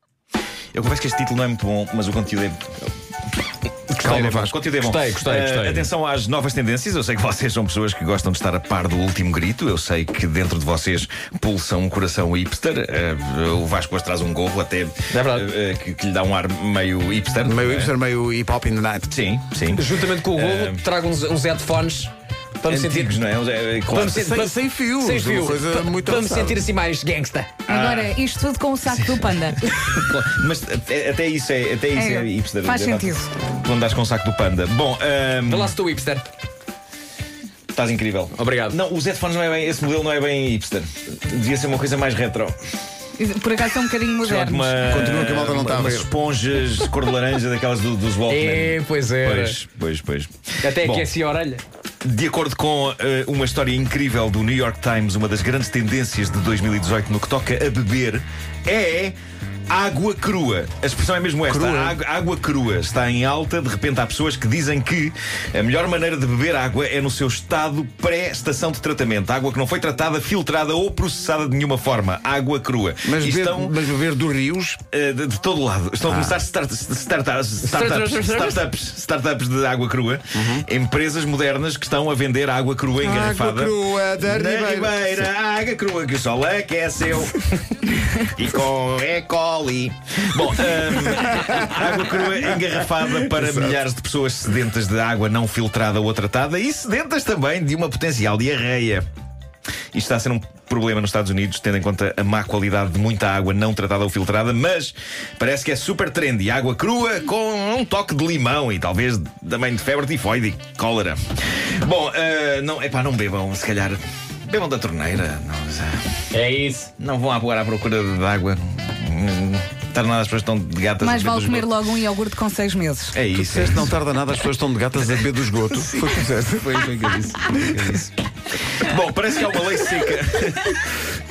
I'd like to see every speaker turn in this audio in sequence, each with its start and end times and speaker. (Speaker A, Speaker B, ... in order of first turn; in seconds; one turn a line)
Speaker A: 0.7-2.6
Speaker A: 3.9-17.9
Speaker B: 4.0-5.9
Speaker B: 15.1-15.5
Speaker C: 17.4-19.1
Speaker A: 19.1-20.8
Speaker B: 19.7-22.1
Speaker B: 22.6-23.2
Speaker A: 22.7-24.3
Speaker B: 23.9-27.6
Speaker C: 24.1-26.6
Speaker D: 27.7-30.0
Speaker A: 27.7-28.1
Speaker A: 28.9-35.7
Speaker D: 31.9-33.3
Speaker B: 35.5-36.3
Speaker A: 37.7-42.6
Speaker B: 38.3-38.8
Speaker D: 43.2-44.8
Speaker A: 44.2-51.1
Speaker C: 44.8-46.1
Speaker B: 48.3-49.6
Speaker B: 50.6-51.6
Speaker A: 52.0-59.1
Speaker A: 59.7-73.7
Speaker C: 61.5-62.0
Speaker C: 73.0-74.8
Speaker A: 74.9-99.0
Speaker C: 76.0-76.4
Speaker B: 77.6-78.7
Speaker C: 80.3-80.6
Speaker C: 83.0-85.3
Speaker C: 91.3-91.8
Speaker C: 93.2-93.7
Speaker A: 99.9-116.2
Speaker B: 116.3-116.9
Speaker A: 117.0-121.7
Speaker D: 121.0-123.2
Speaker A: 123.1-123.9
Speaker C: 123.3-128.1
Speaker A: 125.7-126.1
Speaker A: 128.7-131.1